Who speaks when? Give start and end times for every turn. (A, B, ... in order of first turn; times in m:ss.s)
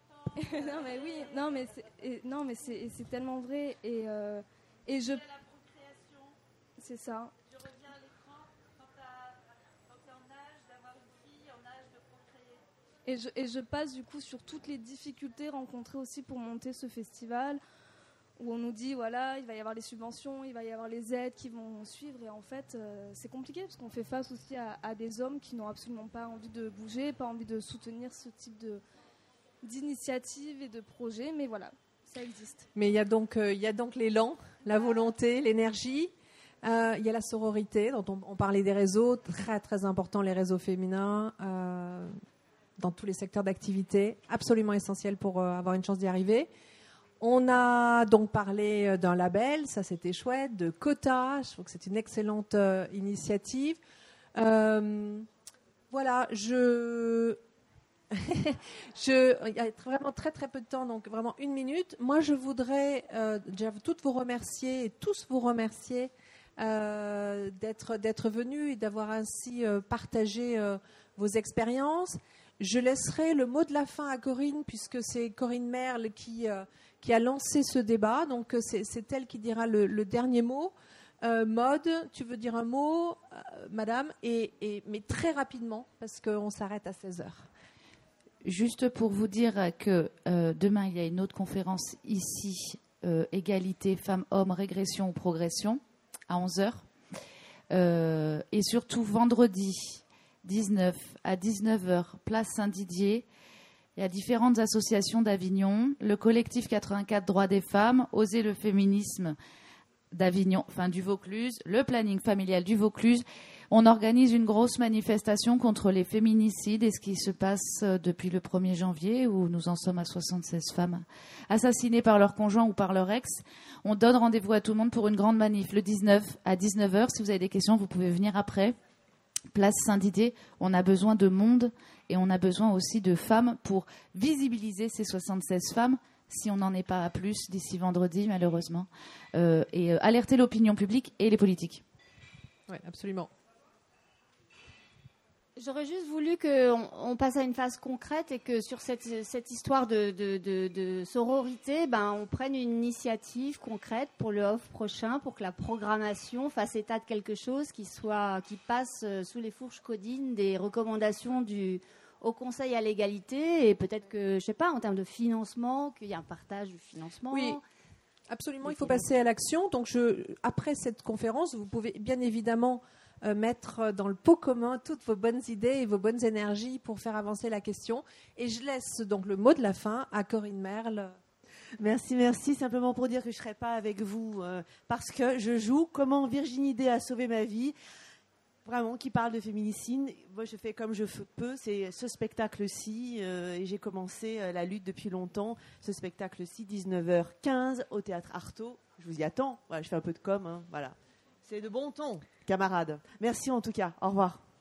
0:00.3-0:05.4 A
0:06.8-0:07.4 A
0:13.1-0:17.6 A
0:18.4-0:28.8 A
0:29.6-0:32.7 A
0:32.8-0:36.1 B
0:36.6-0:42.1 B
0:42.8-0:46.5 B
0:47.2-0:53.8 B
0:54.4-0:55.3 B
0:55.9-0:57.4 B
0:58.1-1:27.5 B
1:28.4-1:36.9 C
1:37.7-1:43.3 C
1:44.0-1:49.4 C
1:50.1-2:08.8 C
2:09.5-2:21.8 C
2:22.7-2:23.3 B
2:25.6-2:47.6 D
2:47.3-2:47.6 B
2:48.3-3:01.2 B
2:48.6-2:49.1 D
3:01.8-3:07.8 E
3:08.6-3:24.4 E